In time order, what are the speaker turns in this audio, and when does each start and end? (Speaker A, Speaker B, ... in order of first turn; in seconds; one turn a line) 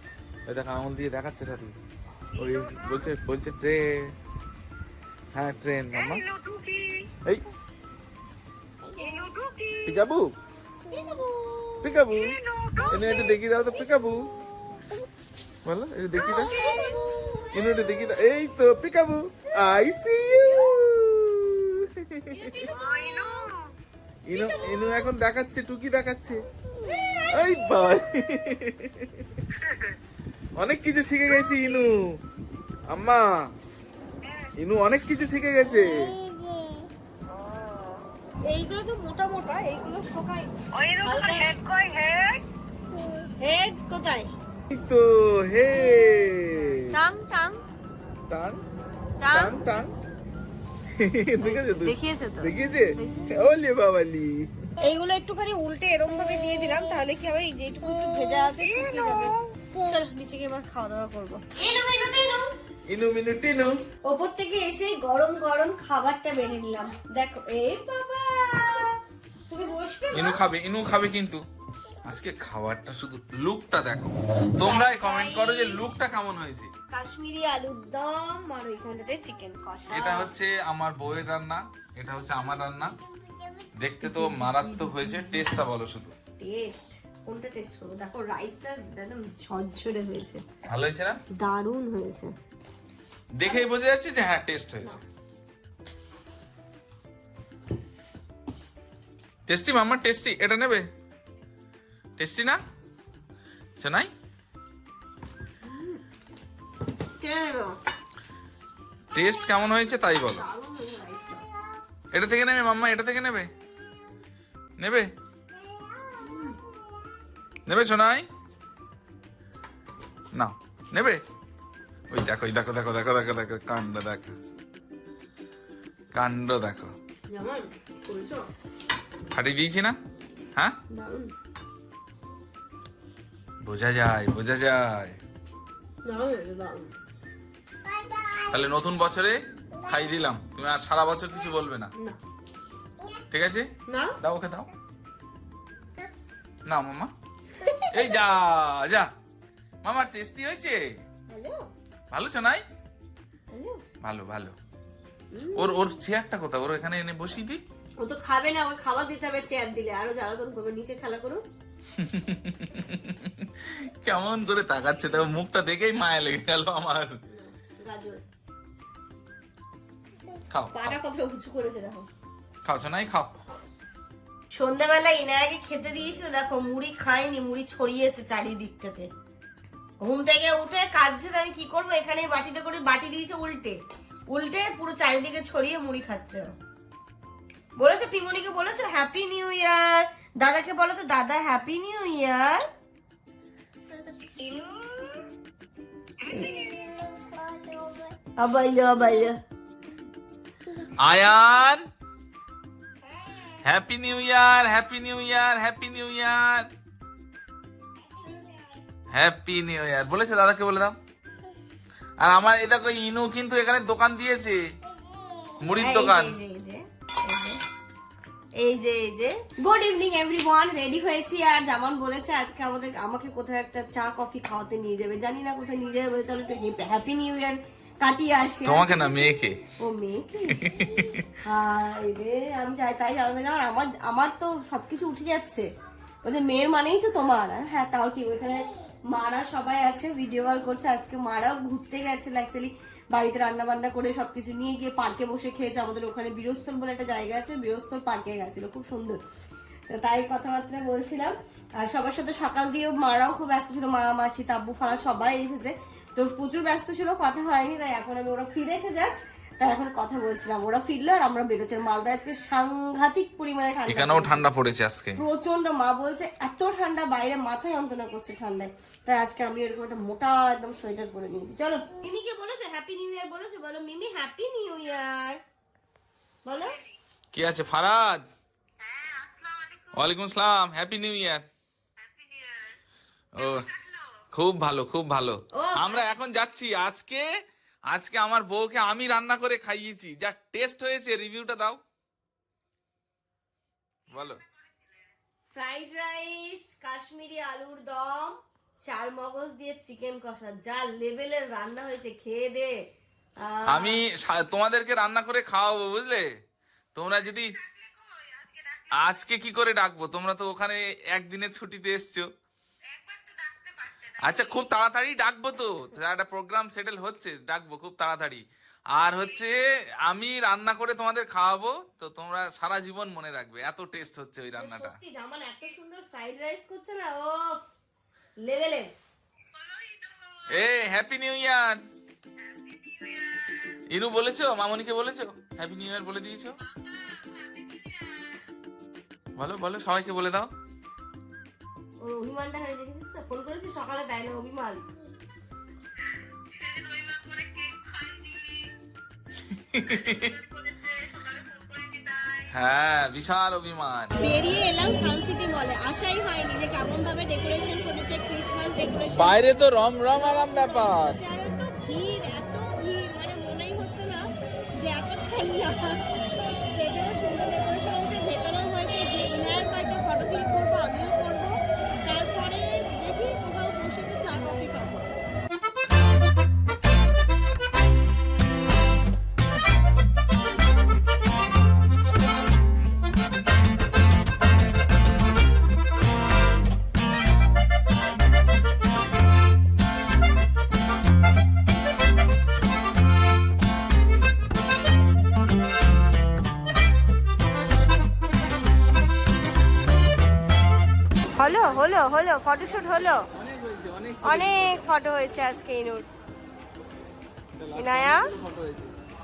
Speaker A: 0.5-1.8
Speaker A: 2.4-4.1
Speaker A: 5.3-6.2
Speaker B: 5.9-7.1
Speaker B: 9.0-9.9
Speaker A: 9.8-10.3
Speaker A: 11.8-12.4
Speaker B: 12.1-13.0
Speaker A: 12.9-14.3
Speaker A: 15.7-16.8
Speaker C: 16.4-17.5
Speaker A: 17.5-22.6
Speaker C: 22.3-23.4
Speaker B: 22.7-23.6
Speaker A: 24.3-26.4
Speaker C: 24.4-24.8
Speaker C: 26.9-27.3
Speaker A: 27.3-29.4
Speaker B: 29.5-29.8
Speaker A: 30.6-32.0
Speaker A: 32.9-33.4
Speaker A: 34.6-36.1
Speaker C: 38.5-40.5
Speaker B: 40.7-42.4
Speaker C: 41.0-41.5
Speaker C: 43.4-44.3
Speaker A: 44.7-47.0
Speaker C: 46.9-47.6
Speaker A: 48.3-48.6
Speaker C: 49.2-49.6
Speaker A: 49.3-50.0
Speaker A: 50.9-54.5
Speaker C: 51.4-53.4
Speaker C: 54.8-62.5
Speaker A: 62.9-63.8
Speaker C: 64.0-69.0
Speaker C: 69.5-70.4
Speaker A: 70.1-71.5
Speaker A: 72.0-76.7
Speaker C: 74.6-75.9
Speaker C: 76.9-80.3
Speaker A: 79.9-83.0
Speaker A: 83.8-86.2
Speaker C: 84.0-85.4
Speaker C: 86.4-90.4
Speaker A: 90.6-91.2
Speaker C: 91.3-92.3
Speaker A: 93.3-95.0
Speaker A: 99.5-100.9
Speaker A: 102.2-102.6
Speaker A: 103.8-104.1
Speaker C: 105.6-106.0
Speaker C: 107.2-107.8
Speaker A: 109.1-110.5
Speaker C: 110.3-111.5
Speaker A: 112.1-113.5
Speaker A: 114.8-115.1
Speaker C: 116.2-116.6
Speaker A: 117.7-118.3
Speaker A: 120.3-121.2
Speaker A: 122.1-124.3
Speaker A: 126.1-127.0
Speaker C: 127.3-128.5
Speaker A: 129.3-130.0
Speaker C: 130.9-131.3
Speaker A: 133.6-135.2
Speaker C: 136.1-136.9
Speaker A: 138.5-141.9
Speaker A: 143.3-144.7
Speaker C: 143.9-144.2
Speaker A: 146.7-147.1
Speaker C: 147.6-148.0
Speaker A: 147.9-149.1
Speaker A: 149.8-151.0
Speaker C: 151.3-151.7
Speaker A: 152.1-152.6
Speaker C: 153.5-153.8
Speaker A: 154.0-154.6
Speaker C: 155.3-155.9
Speaker A: 155.6-157.6
Speaker C: 158.0-161.4
Speaker A: 162.0-167.2
Speaker C: 167.3-168.2
Speaker A: 170.5-171.0
Speaker C: 170.7-172.1
Speaker A: 172.7-173.4
Speaker C: 174.5-179.1
Speaker C: 180.0-183.8
Speaker C: 184.3-186.6
Speaker C: 187.8-192.7
Speaker C: 196.3-196.7
Speaker C: 198.4-199.4
Speaker A: 201.0-201.9
Speaker A: 203.6-206.7
Speaker A: 209.1-211.0
Speaker A: 212.2-214.6
Speaker A: 215.6-216.4
Speaker C: 215.8-217.6
Speaker C: 218.6-230.7
Speaker A: 228.7-229.6
Speaker A: 230.5-231.2
Speaker C: 231.4-235.7
Speaker C: 236.2-249.2
Speaker C: 249.9-264.5
Speaker A: 263.9-265.2
Speaker C: 265.2-275.4
Speaker C: 276.4-276.8
Speaker A: 277.3-278.3
Speaker B: 279.0-279.8
Speaker A: 279.9-281.4
Speaker A: 283.4-283.7
Speaker A: 284.3-287.3
Speaker C: 285.5-286.1
Speaker A: 287.9-291.8
Speaker A: 294.1-294.4
Speaker C: 295.5-302.8
Speaker C: 303.4-304.0
Speaker A: 303.7-306.3
Speaker A: 306.9-307.6
Speaker A: 308.9-312.3
Speaker B: 312.9-314.2
Speaker A: 314.2-325.0
Speaker C: 324.6-327.6
Speaker C: 328.4-328.9
Speaker A: 330.5-331.8
Speaker A: 333.9-336.6
Speaker A: 339.4-340.5
Speaker C: 342.0-344.8
Speaker B: 346.7-348.5
Speaker A: 349.5-350.4
Speaker B: 351.1-352.4
Speaker A: 352.5-354.1
Speaker C: 354.2-375.2
Speaker A: 359.1-361.2
Speaker C: 401.3-403.3
Speaker A: 403.3-404.9
Speaker C: 404.2-406.1
Speaker A: 407.6-408.9
Speaker C: 407.8-408.3